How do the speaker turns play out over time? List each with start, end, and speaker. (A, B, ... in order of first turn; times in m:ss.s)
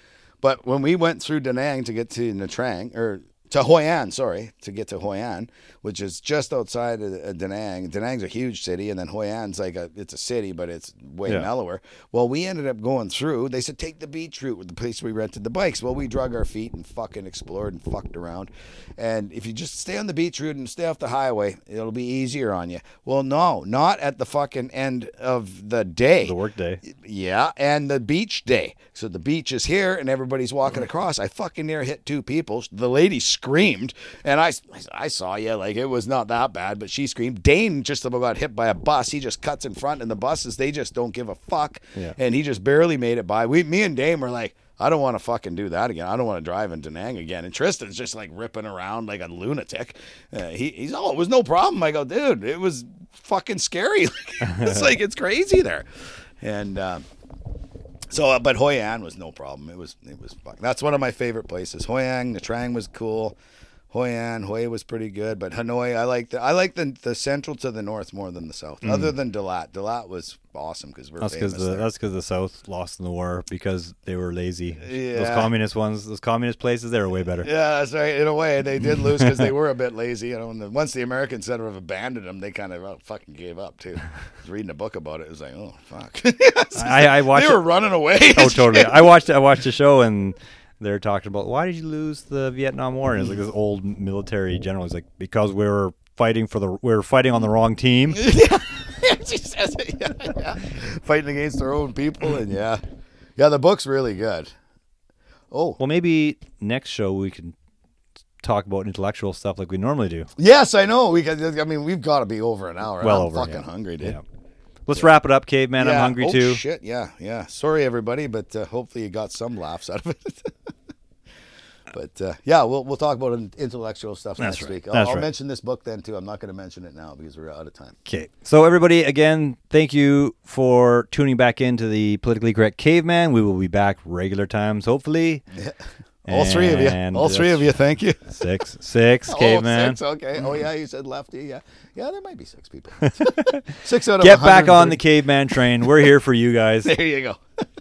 0:00.4-0:55.8 A
0:26.2-0:26.8 B
0:54.4-0:54.9 B
0:56.4-0:57.0 A
0:58.1-1:03.4 A
1:03.9-1:11.9 A
1:08.8-1:09.1 B
1:11.2-1:17.5 B
1:14.8-1:15.5 A
1:17.4-1:29.1 A
1:18.8-1:19.5 B
1:26.7-1:27.7 B
1:28.3-1:38.3 B
1:38.1-1:42.8 A
1:43.4-1:44.5 A
1:45.5-1:45.8 A
1:45.8-1:47.5 B
1:48.4-1:50.3 B
1:50.4-1:54.2 A
1:53.0-1:54.2 B
1:54.9-1:56.6 B
1:55.8-2:00.7 A
2:01.9-2:07.9 A
2:04.4-2:05.3 B
2:08.0-2:15.4 B
2:15.5-2:18.3 A
2:16.2-2:20.0 B
2:19.3-2:25.0 A
2:23.0-2:26.9 B
2:26.8-2:27.4 A